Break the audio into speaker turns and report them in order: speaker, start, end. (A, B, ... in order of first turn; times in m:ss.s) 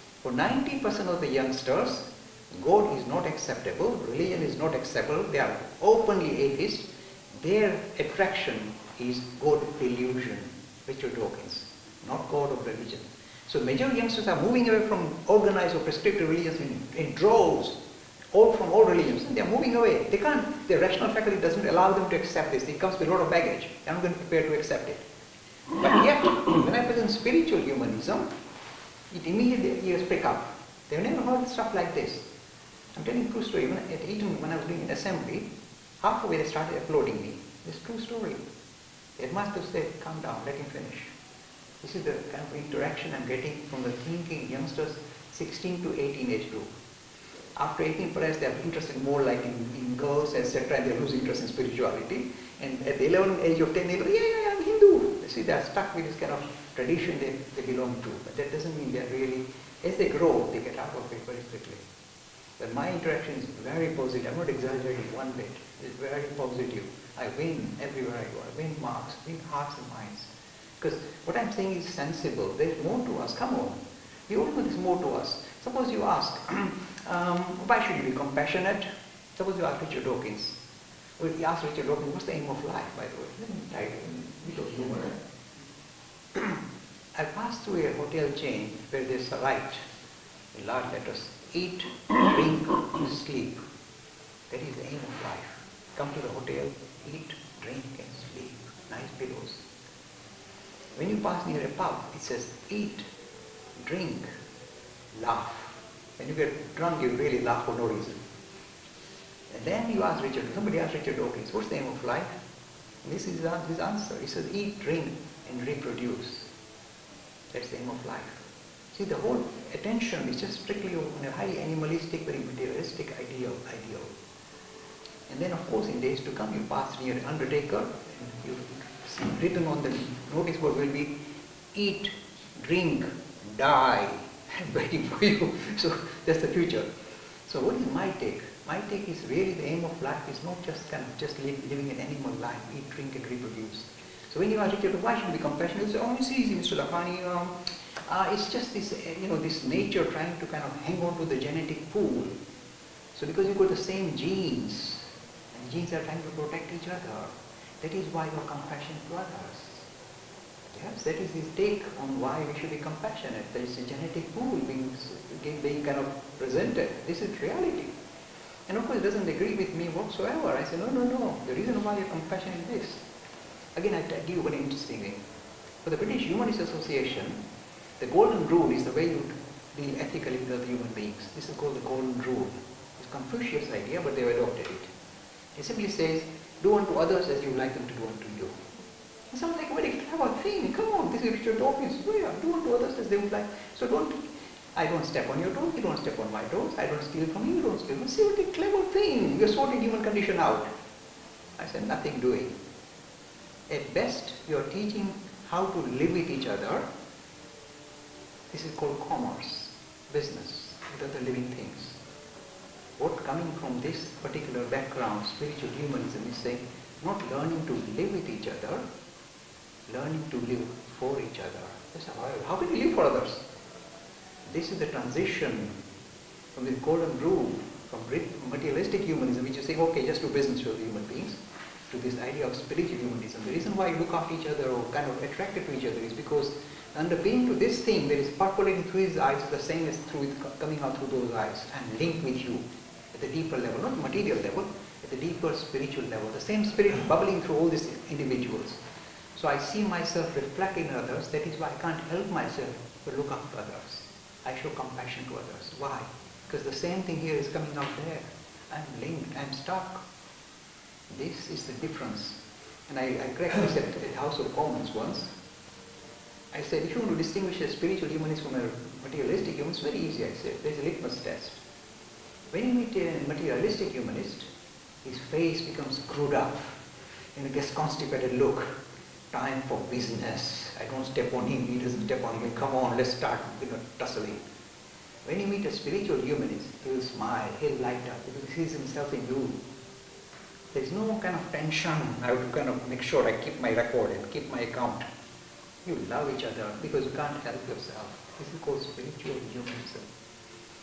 0:00.2-0:17.8 A
0:18.3-0:25.0 A
0:25.8-0:28.3 A
0:29.1-0:32.2 A
0:32.9-0:35.5 A
0:36.0-0:38.4 A
0:39.2-0:41.1 A
0:41.8-0:46.7 A
0:47.6-1:01.8 A
1:02.6-1:20.6 A
1:21.2-1:25.2 A
1:26.3-1:26.6 A
1:27.1-1:29.8 A
1:30.5-1:33.6 A
1:34.5-1:39.6 A
1:40.9-1:43.1 A
1:43.8-1:44.3 A
1:45.1-1:48.2 A
1:49.5-1:52.4 A
1:53.0-1:56.4 A
1:57.5-1:58.4 A
1:58.9-2:04.1 A
2:05.3-2:11.1 A
2:11.7-2:16.9 A
2:17.4-2:32.4 A
2:33.1-2:39.9 A
2:40.7-2:47.9 A
2:48.7-2:53.0 A
2:53.8-2:55.2 A
2:55.8-2:57.4 A
2:58.0-3:04.9 A
3:05.6-3:08.6 A
3:09.3-3:14.2 A
3:14.7-3:20.7 A
3:21.6-3:22.6 A
3:23.7-3:26.9 A
3:28.5-3:32.0 A
3:33.0-3:38.8 A
3:39.9-3:43.4 A
3:44.5-3:45.8 A
3:46.5-3:51.4 A
3:51.9-4:08.8 A
4:09.4-4:20.0 A
4:21.1-4:25.3 A
4:26.5-4:31.6 A
4:32.5-4:34.5 A
4:35.0-4:36.8 A
4:37.3-4:38.8 A
4:39.3-4:44.4 A
4:45.2-4:49.6 A
4:50.7-4:55.0 A
4:55.8-5:00.1 A